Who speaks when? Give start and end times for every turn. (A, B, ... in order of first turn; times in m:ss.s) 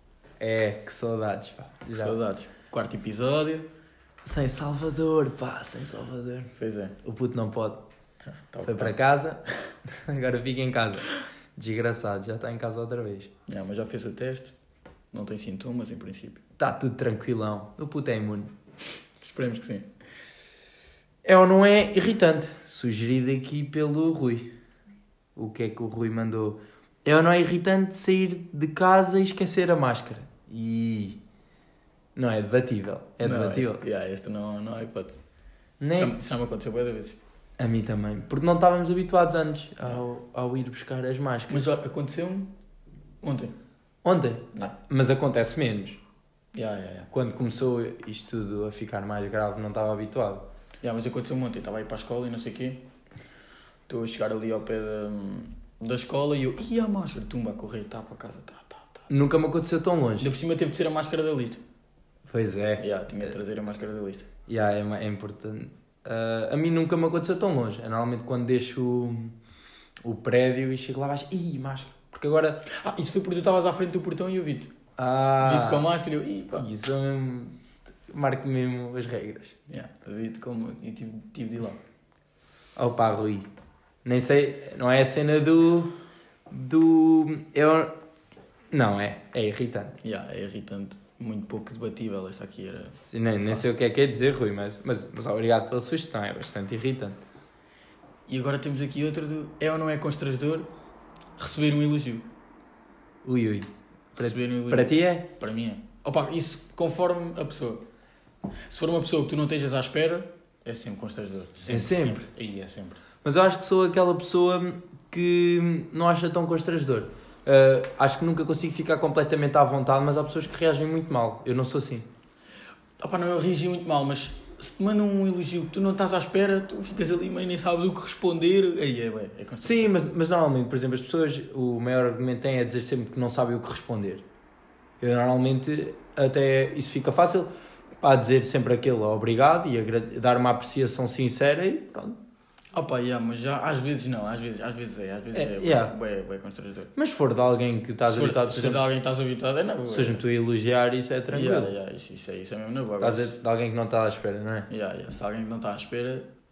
0:00.4-0:02.2 A
0:02.0-0:03.7 B
0:04.2-0:06.5 A
0:06.6-0:07.0 B
0:07.0-0:07.8 A
0:08.2-0:08.9 B
0:08.6-0:13.3 A
0:13.5-0:14.5 B
0:15.1-0:16.4 B
0:16.6-0:18.5 A
0:19.2-0:19.9 B
0:21.2-0:24.5 A
0:25.4-0:31.2 A
0:32.2-0:33.8 A
0:33.2-0:35.2 B
0:35.8-0:36.1 A
0:35.9-0:37.2 B
0:37.6-0:41.7 A
0:41.5-0:42.5 B
0:43.2-0:43.5 B
0:44.0-0:46.0 A
0:46.5-0:47.1 B
0:47.1-0:50.4 A
0:50.8-0:52.8 B
0:53.9-0:59.1 B
0:59.1-1:00.3 A
1:00.2-1:01.6 B
1:02.3-1:02.8 A
1:02.8-1:04.3 B
1:04.5-1:09.3 A
1:10.0-1:12.6 A
1:12.7-1:14.7 B
1:15.0-1:15.9 A
1:15.4-1:16.7 B
1:16.6-1:17.6 A
1:18.1-1:19.6 A
1:19.7-1:21.8 B
1:22.8-1:23.4 A
1:24.0-1:25.9 A
1:26.5-1:27.9 A
1:28.7-1:30.0 A
1:30.0-1:33.6 B
1:33.1-1:37.2 A
1:38.3-1:40.7 B
1:41.4-1:42.2 B
1:43.2-1:45.3 A
1:44.2-1:47.8 B
1:48.7-1:53.0 B
1:51.7-1:52.2 A
1:53.2-2:02.0 A
2:03.0-2:10.1 B
2:09.6-2:14.2 A
2:15.0-2:17.5 A
2:18.0-2:22.2 A
2:22.7-2:26.9 B
2:25.3-2:25.9 A
2:27.0-2:28.8 A
2:28.0-2:30.2 B
2:29.9-2:31.7 A
2:31.3-2:33.4 B
2:33.0-2:34.7 A
2:34.7-2:36.3 B